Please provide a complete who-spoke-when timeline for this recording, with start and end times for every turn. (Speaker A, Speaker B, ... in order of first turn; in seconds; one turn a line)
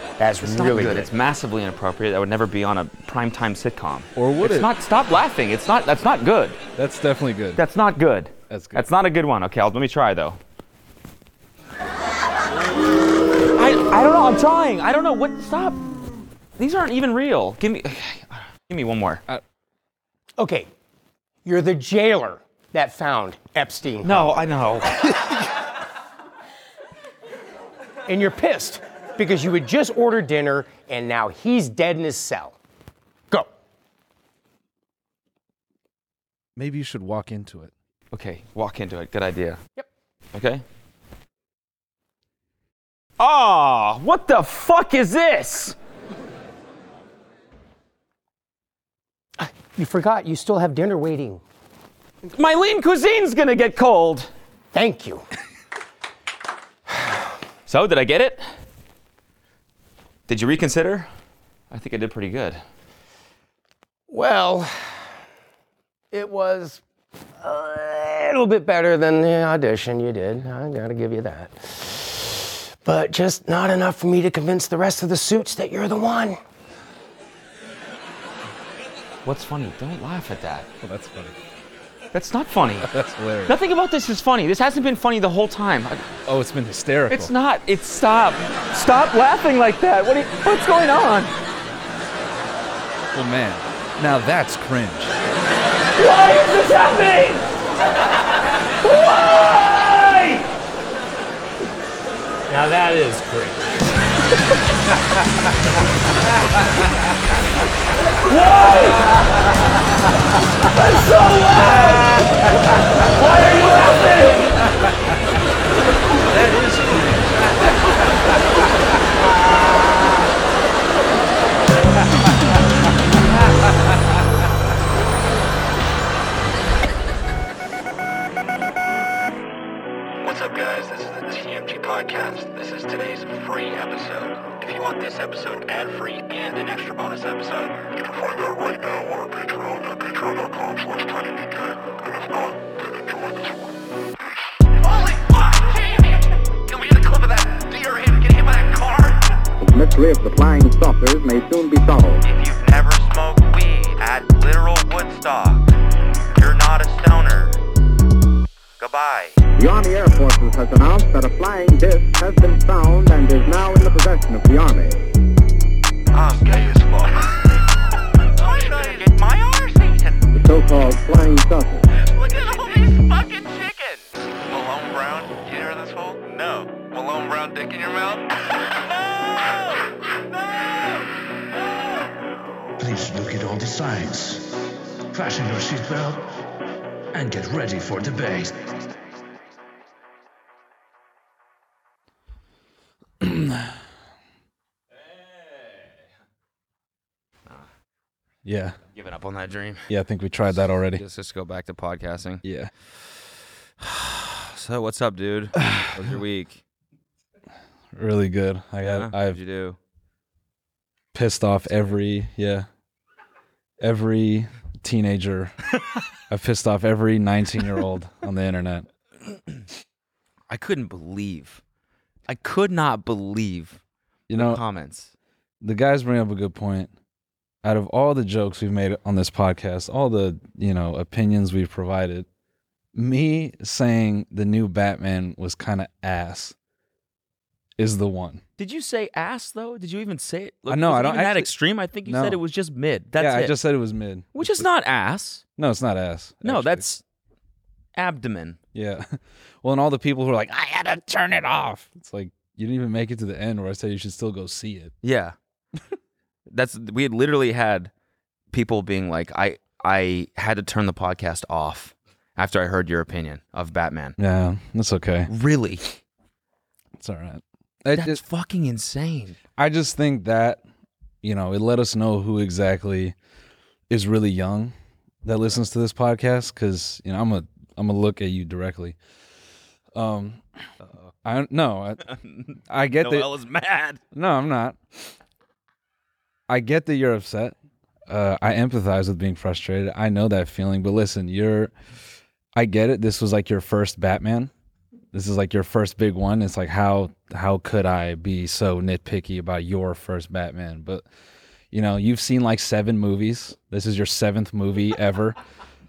Speaker A: 0.2-1.1
Speaker B: 0.4-6.6
Speaker C: 4.2-4.7
Speaker C: 6.8-7.6
Speaker B: 7.6-10.4
Speaker C: 8.5-8.9
Speaker B: 13.5-15.9
Speaker B: 16.6-19.2
Speaker A: 20.4-20.7
Speaker A: 21.4-24.4
Speaker B: 24.0-25.0
Speaker C: 25.0-25.4
Speaker A: 28.1-32.6
Speaker C: 36.6-37.7
Speaker B: 38.1-39.6
Speaker B: 40.3-40.6
Speaker B: 43.2-45.8
Speaker A: 49.4-51.4
Speaker B: 52.3-54.3
Speaker A: 54.7-55.2
Speaker B: 57.7-58.4
Speaker B: 60.3-61.1
Speaker B: 61.7-62.6
Speaker A: 64.1-65.0
Speaker A: 66.1-66.8
Speaker A: 67.4-76.4
Speaker B: 79.2-80.7
Speaker C: 80.8-81.4
Speaker B: 82.1-82.9
Speaker C: 82.8-83.6
Speaker B: 83.5-86.0
Speaker C: 86.3-87.3
Speaker B: 87.1-91.3
Speaker C: 93.1-95.2
Speaker B: 96.0-97.2
Speaker B: 98.8-100.4
Speaker A: 102.5-103.6
Speaker A: 111.6-111.9
Speaker A: 113.2-114.2
Speaker C: 116.2-117.8
Speaker D: 130.2-141.2
Speaker D: 144.8-149.4
Speaker E: 149.6-152.2
Speaker D: 152.2-155.7
Speaker D: 156.3-157.6
Speaker D: 158.8-159.3
Speaker E: 159.6-165.1
Speaker D: 166.1-167.7
Speaker D: 168.3-170.2
Speaker E: 170.3-171.8
Speaker D: 172.0-178.2
Speaker F: 182.8-186.3
Speaker F: 187.1-188.6
Speaker C: 193.2-193.8
Speaker C: 198.4-198.8
Speaker B: 198.9-199.9
Speaker C: 199.9-201.0
Speaker B: 200.9-202.4
Speaker C: 202.4-202.7
Speaker B: 204.4-206.6
Speaker C: 205.6-206.0
Speaker C: 207.9-209.4
Speaker B: 208.8-209.8
Speaker C: 211.1-212.7
Speaker C: 213.8-215.6
Speaker C: 216.3-218.9
Speaker B: 220.5-221.6
Speaker B: 222.3-223.8
Speaker C: 224.3-224.6
Speaker B: 224.3-225.1
Speaker C: 225.6-226.9
Speaker C: 227.6-232.3
Speaker C: 232.9-236.6
Speaker C: 237.8-238.4
Speaker B: 238.6-243.6
Speaker C: 240.7-242.4
Speaker C: 243.2-244.7
Speaker B: 244.3-245.4
Speaker C: 245.6-246.9
Speaker B: 246.4-247.0
Speaker B: 247.9-248.6
Speaker C: 248.7-254.9
Speaker B: 255.0-255.4
Speaker B: 256.5-257.9
Speaker B: 258.5-264.2
Speaker C: 264.2-265.3
Speaker B: 265.3-266.0
Speaker C: 267.0-268.2
Speaker B: 267.9-269.4
Speaker C: 269.6-270.6
Speaker C: 271.2-273.1
Speaker C: 273.9-279.0
Speaker C: 279.9-280.4
Speaker B: 280.8-281.1
Speaker C: 281.2-282.0
Speaker B: 282.1-284.0
Speaker C: 282.7-283.3
Speaker C: 284.1-284.8
Speaker C: 286.5-287.6
Speaker C: 288.1-291.7
Speaker C: 292.6-294.5
Speaker C: 295.1-301.1
Speaker C: 301.7-305.4